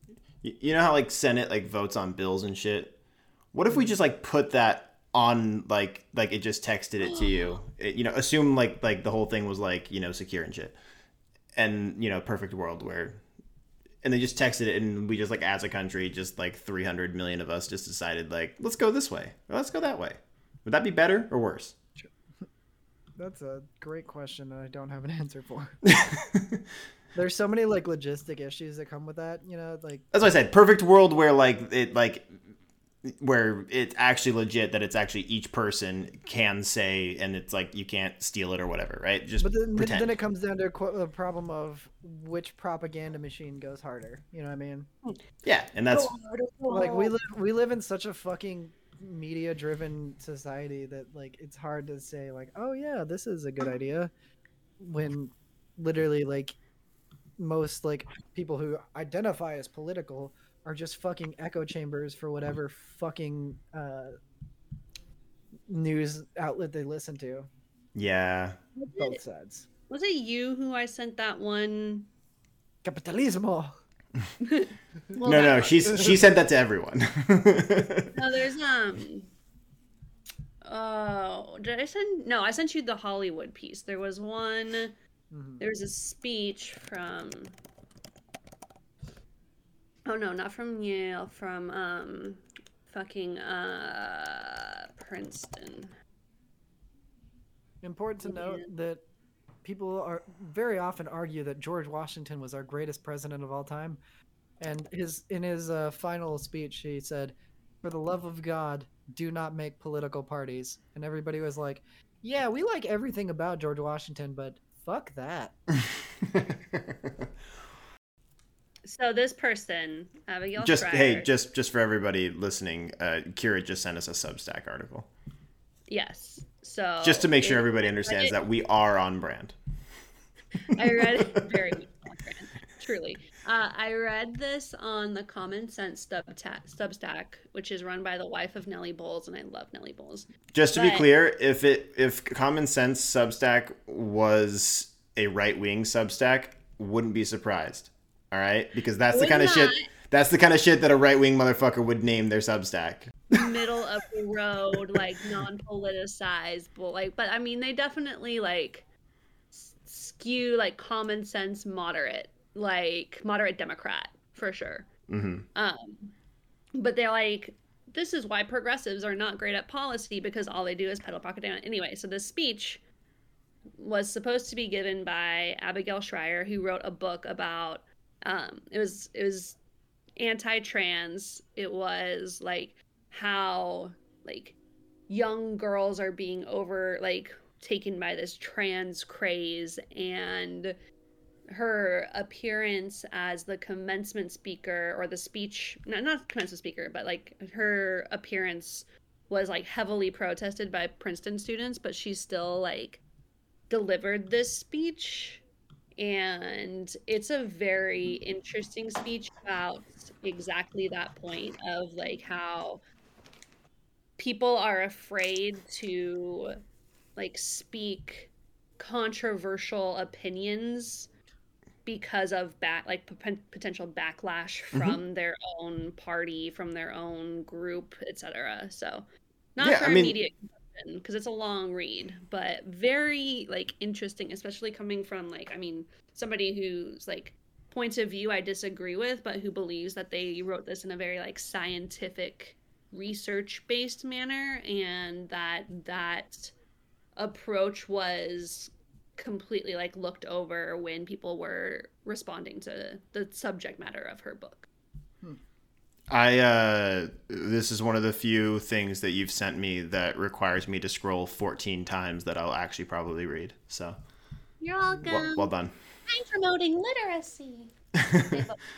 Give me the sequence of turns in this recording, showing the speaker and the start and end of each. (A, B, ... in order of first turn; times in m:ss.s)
0:00.4-0:02.9 A
0:03.5-0:10.8 A
0:03.7-0:03.9 B
0:07.0-0:07.6 C
0:11.6-0:13.2 A
0:14.0-0:21.7 A
0:23.2-0:25.8 B
0:25.8-0:26.6 A
0:27.1-0:30.0 B
0:30.1-0:32.3 A
0:33.0-0:40.1 A
0:39.4-0:44.9 B
0:45.4-0:46.1 A
0:45.9-0:47.1 C
0:46.7-0:54.1 B
0:54.8-0:56.6 B
0:57.4-1:04.1 B
1:05.7-1:07.5 B
1:07.9-1:08.6 A
1:08.8-1:09.2 C
1:09.0-1:09.7 B
1:09.9-1:12.1 C
1:12.8-1:13.7 B
1:14.4-1:16.2 C
1:15.2-1:18.1 A
1:15.9-1:16.1 B
1:18.1-1:19.3 C
1:20.6-1:24.9 C
1:25.3-1:25.6 B
1:25.6-1:27.6 C
1:30.0-1:35.9 C
1:37.8-1:39.0 B
1:38.2-1:38.7 C
1:39.6-1:44.0 B
1:44.6-1:55.5 B
1:56.2-1:57.1 A
1:58.8-2:01.3 C
2:00.6-2:05.1 A
2:05.9-2:08.3 C
2:07.0-2:09.6 A
2:10.7-2:21.1 C
2:20.5-2:33.5 A
2:29.1-2:29.8 C
2:33.3-2:38.8 C
2:39.5-2:44.9 C
2:45.1-2:45.4 A
2:45.5-2:46.1 C
2:46.7-2:52.8 C
2:53.8-2:59.6 C
3:00.2-3:04.6 C
3:05.1-3:10.8 C
3:11.5-3:23.0 C
3:23.7-3:25.4 C
3:26.0-3:32.8 C
3:34.2-3:36.6 C
3:37.2-3:41.1 C
3:41.8-4:06.5 C
3:44.7-3:45.0 A
3:49.6-3:50.2 A
4:07.2-4:14.7 C
4:16.1-4:24.0 A
4:24.6-4:25.5 C
4:24.9-4:25.2 B
4:25.1-4:25.7 A
4:26.1-4:28.6 C
4:28.0-4:28.4 A